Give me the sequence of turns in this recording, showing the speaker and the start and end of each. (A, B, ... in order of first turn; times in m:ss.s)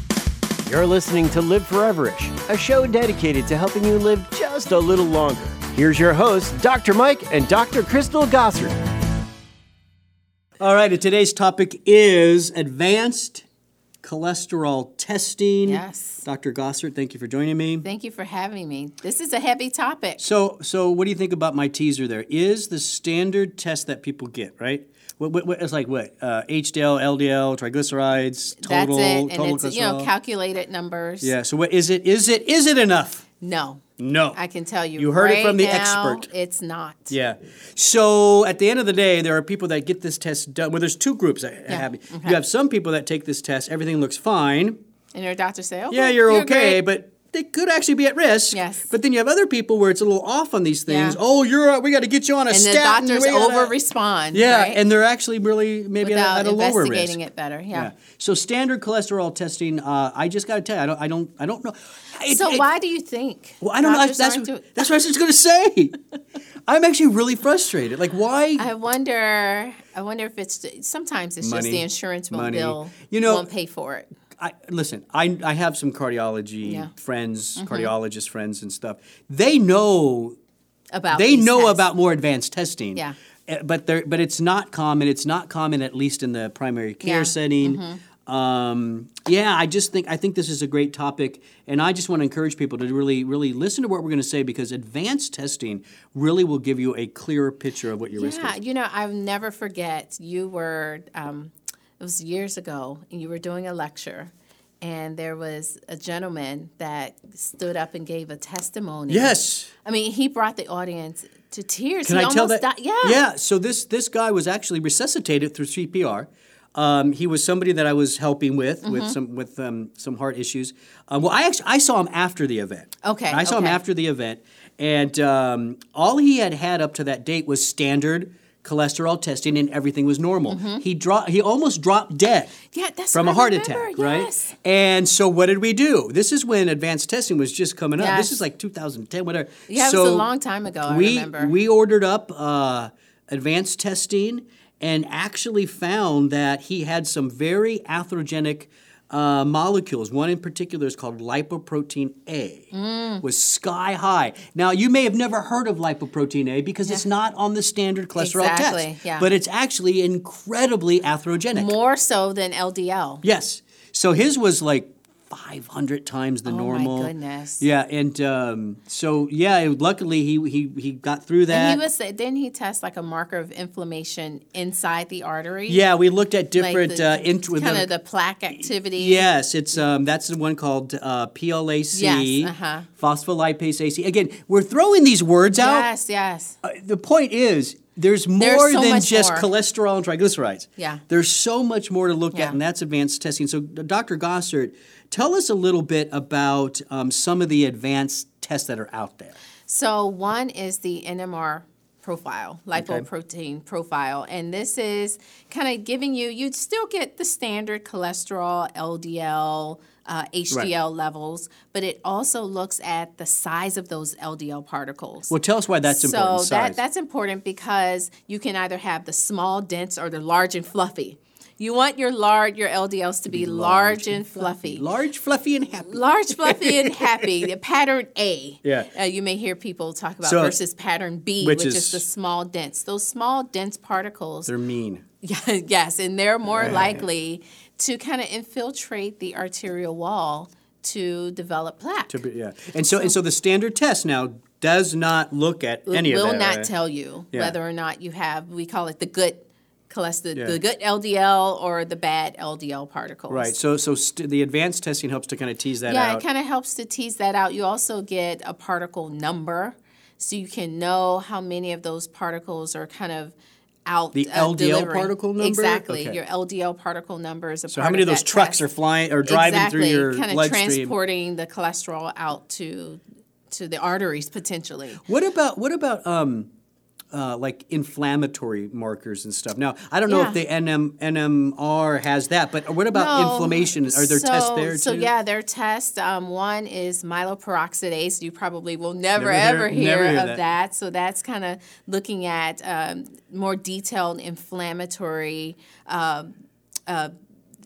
0:00.6-0:08.8 A
0:10.6-0:13.4 B
0:14.0-0:17.9 B
0:15.6-0:16.2 C
0:17.8-0:20.3 C
0:20.2-0:30.1 B
0:28.6-0:31.3 C
0:31.2-0:33.2 B
0:33.4-0:33.8 C
0:34.0-0:34.4 B
0:34.3-0:37.1 C
0:35.0-0:36.3 B
0:37.1-0:44.8 B
0:41.7-0:42.4 C
0:45.1-0:46.8 C
0:45.9-0:53.8 B
0:48.5-0:48.9 C
0:50.9-0:51.2 C
0:52.5-0:54.8 C
0:54.3-0:57.2 B
0:56.0-0:57.9 C
0:57.7-1:02.7 B
1:02.3-1:04.7 C
1:03.6-1:06.0 B
1:06.7-1:08.7 B
1:08.6-1:14.1 C
1:11.4-1:13.5 B
1:14.4-1:20.4 B
1:16.6-1:16.9 C
1:17.6-1:17.9 C
1:20.9-1:21.8 C
1:21.1-1:38.6 B
1:27.0-1:28.0 C
1:38.1-1:53.2 C
1:49.1-1:49.7 B
1:52.0-2:12.6 B
1:58.8-1:59.2 C
2:03.0-2:03.8 C
2:10.5-2:10.8 C
2:12.7-2:14.5 C
2:13.1-2:20.3 B
2:18.0-2:18.4 C
2:19.7-2:21.6 C
2:20.8-2:32.7 B
2:32.7-2:33.2 C
2:33.2-2:41.8 B
2:38.2-2:39.3 C
2:41.5-2:43.2 C
2:43.2-2:51.8 B
2:46.5-2:47.6 C
2:51.5-2:55.8 C
2:55.7-2:57.9 B
2:56.6-2:59.2 C
2:58.5-3:05.9 B
3:01.9-3:02.9 C
3:05.6-3:06.6 C
3:06.6-3:19.4 B
3:08.4-3:09.5 C
3:10.8-3:11.0 C
3:19.7-3:35.3 C
3:22.8-3:23.1 B
3:35.3-3:36.8 B
3:35.9-3:44.9 C
3:43.3-3:47.5 B
3:45.9-3:54.5 C
3:48.6-3:48.9 B
3:50.2-3:50.6 B
3:51.4-3:52.0 B
3:54.5-3:55.0 B
3:55.2-4:02.2 C
3:56.5-3:57.0 B
4:02.1-4:06.7 B
4:05.9-4:13.5 C
4:10.3-4:10.6 B
4:13.3-4:16.2 B
4:15.9-4:28.6 C
4:24.1-4:26.2 B
4:27.7-4:30.9 B
4:29.2-4:35.0 C
4:35.0-4:36.5 B
4:37.1-4:45.1 B
4:40.1-4:40.4 C
4:42.9-4:56.3 C
4:49.2-4:50.4 B
4:56.9-4:57.1 C